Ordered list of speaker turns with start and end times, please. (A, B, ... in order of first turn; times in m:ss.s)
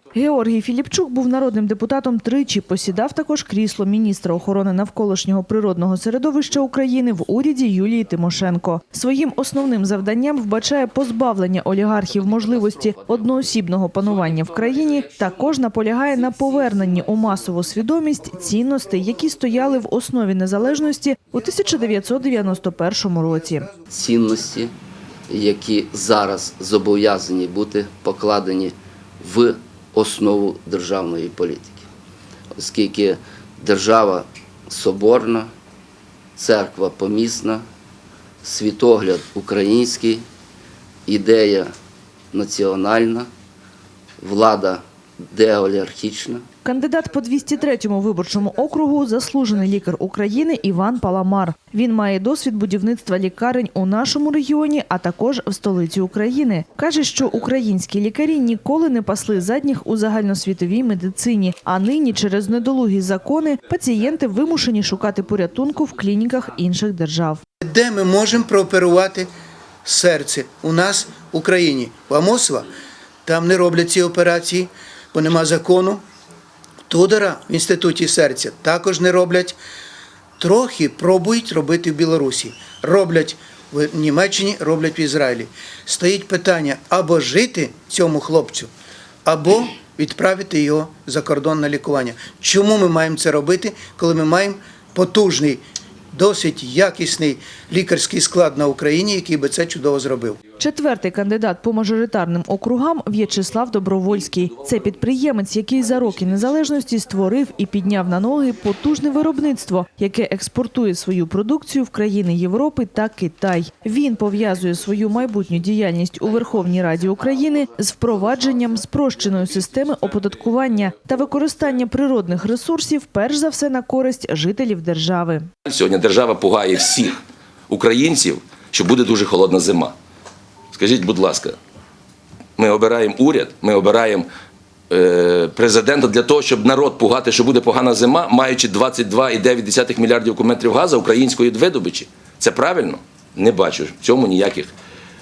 0:00.1-0:23.7 A
0:12.1-0:13.4 B
0:23.9-0:24.7 B
0:25.3-0:31.9 B
0:32.6-0:35.5 B
0:36.4-0:37.6 B
0:38.4-0:40.2 B
0:41.0-0:41.7 B
0:42.3-0:43.3 B
0:44.2-0:46.4 B
0:46.6-1:07.4 A
1:07.6-1:09.3 C
1:09.8-1:12.7 C
1:13.2-1:16.0 C
1:16.9-1:19.6 C
1:20.4-1:28.7 C
1:29.2-1:40.4 C
1:40.6-2:05.5 A
2:05.6-2:07.2 D
2:07.7-2:09.9 D
2:10.7-2:11.6 D
2:12.6-2:14.3 D
2:14.9-2:24.7 D